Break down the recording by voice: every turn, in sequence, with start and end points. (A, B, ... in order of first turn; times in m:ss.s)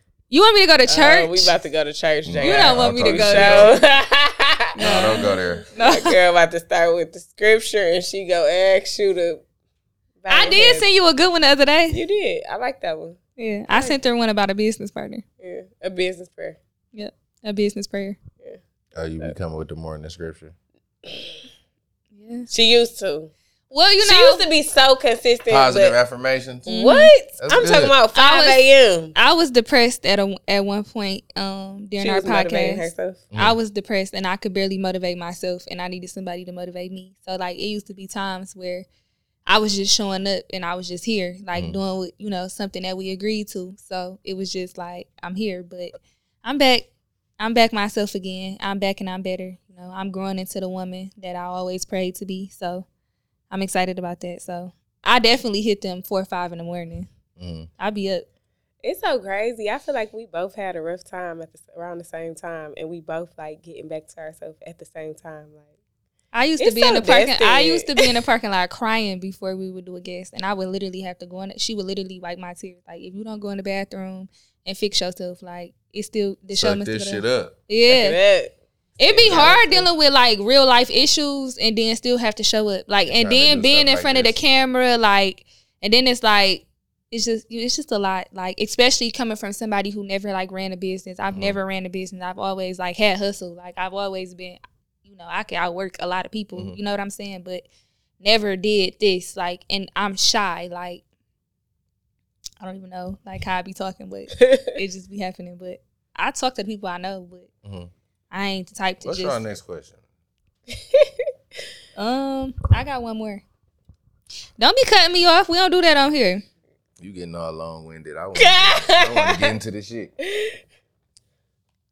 0:00.3-0:01.5 A
0:00.9-0:09.4 B
0:02.2-0:03.8 C
0:02.4-0:03.8 A
0:04.8-0:06.2 A
0:04.8-0:05.6 C
0:10.2-0:10.8 B
0:10.3-0:12.0 A
0:11.9-0:13.2 B
0:13.4-0:15.2 A
0:15.4-0:16.6 B
0:16.9-0:18.2 A
0:18.9-0:20.5 C
0:21.0-0:21.4 B
0:22.1-0:22.5 A
0:22.5-0:23.3 B
0:23.7-0:24.4 A
0:24.0-0:26.0 B
0:25.5-0:26.8 C
0:26.7-0:27.1 A
0:26.7-0:29.1 B
0:27.4-0:27.9 C
0:28.1-0:28.6 A
0:29.1-0:38.8 A
0:32.0-0:33.2 B
0:39.4-0:46.9 A
0:47.4-0:52.8 A
0:53.5-0:57.1 A
0:57.4-0:57.7 C
0:57.8-0:58.3 A
0:58.8-1:05.7 B
1:06.3-1:18.2 A
1:06.6-1:08.2 B
1:16.6-1:17.5 C
1:17.9-1:19.9 B
1:19.0-1:37.6 A
1:23.1-1:24.4 C
1:31.3-1:31.6 C
1:38.2-1:41.0 A
1:42.6-1:47.5 A
1:44.4-1:44.7 B
1:47.6-1:47.9 C
1:48.3-1:49.4 A
1:49.0-1:50.0 C
1:50.7-1:51.1 B
1:52.0-1:53.4 A
1:54.6-1:56.4 A
1:57.0-2:00.1 C
1:58.4-1:59.5 B
2:00.2-2:00.6 B